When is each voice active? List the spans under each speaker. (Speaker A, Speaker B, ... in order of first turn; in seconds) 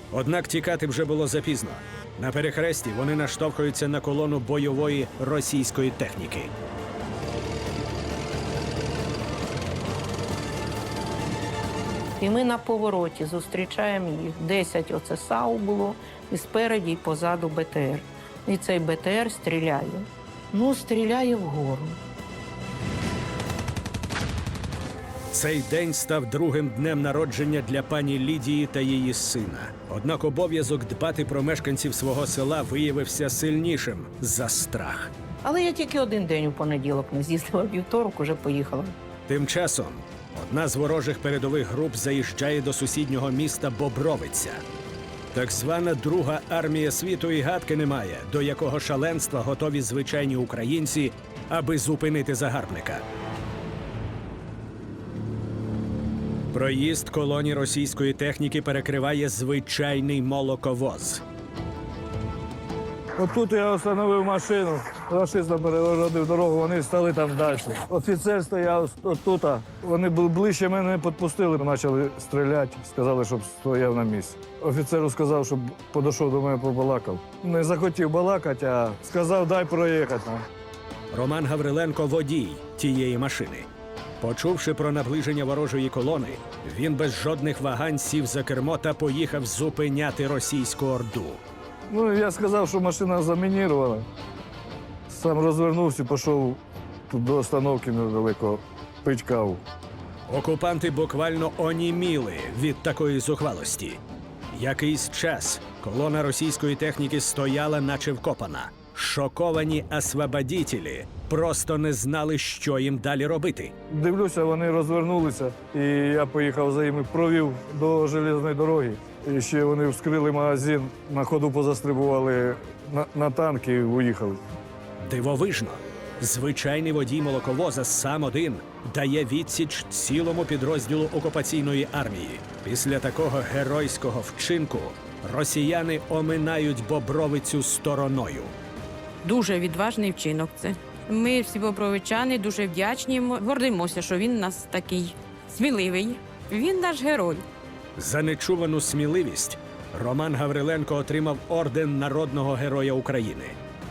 Speaker A: 0.1-6.5, 25.3-35.1, 39.3-44.6, 45.3-53.0, 56.5-61.2, 81.1-83.7, 84.2-91.4, 100.3-104.0, 104.5-113.7, 125.0-138.5, 148.0-153.6
Speaker B: 12.2-22.0, 35.4-38.9
Speaker C: 63.2-80.4, 91.9-94.0, 95.1-99.6, 113.9-124.4
Speaker D: 139.2-147.4